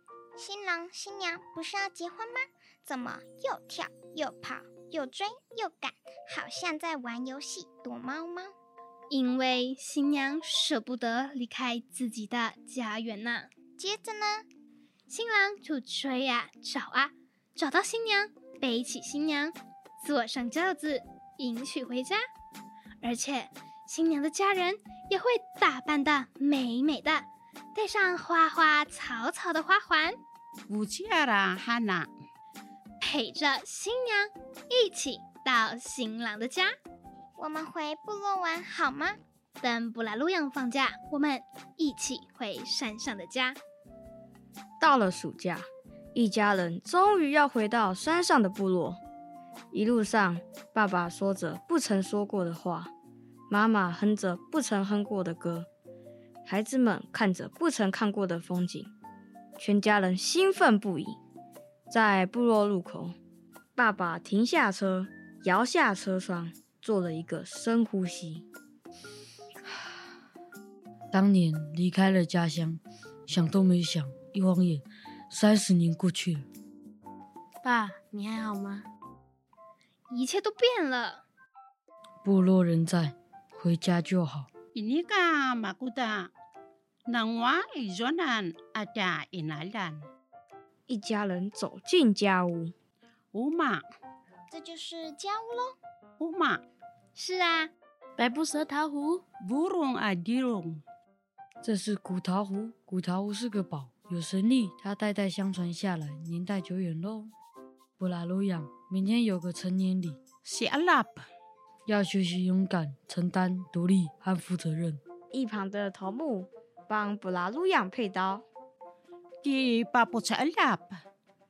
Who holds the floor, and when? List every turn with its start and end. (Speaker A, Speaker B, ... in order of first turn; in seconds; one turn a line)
Speaker A: 0.3-8.5
Speaker B: 9.1-13.5
Speaker A: 13.8-14.4
Speaker B: 15.1-22.2
Speaker B: 23.0-30.2
Speaker C: 30.7-32.1
Speaker B: 33.0-36.7
Speaker A: 37.4-39.2
Speaker B: 39.6-43.6
Speaker D: 44.8-49.0
Speaker D: 49.7-52.9
Speaker D: 53.5-55.7
Speaker D: 56.4-58.9
Speaker D: 59.6-61.2
Speaker D: 61.9-63.1
Speaker D: 63.8-68.5
Speaker E: 71.1-76.5
Speaker F: 77.6-78.8
Speaker B: 80.1-81.2
Speaker E: 82.2-84.5
Speaker C: 84.7-86.3
Speaker C: 87.0-90.0
Speaker D: 90.9-92.7
Speaker C: 93.3-93.8
Speaker A: 94.5-95.8
Speaker C: 96.2-96.6
Speaker B: 97.2-97.7
Speaker F: 98.2-99.2
Speaker C: 99.4-100.8
Speaker E: 101.6-107.3
Speaker E: 108.0-110.2
Speaker C: 110.4-111.2
Speaker E: 111.8-115.0
Speaker D: 115.3-118.5
Speaker C: 119.4-121.0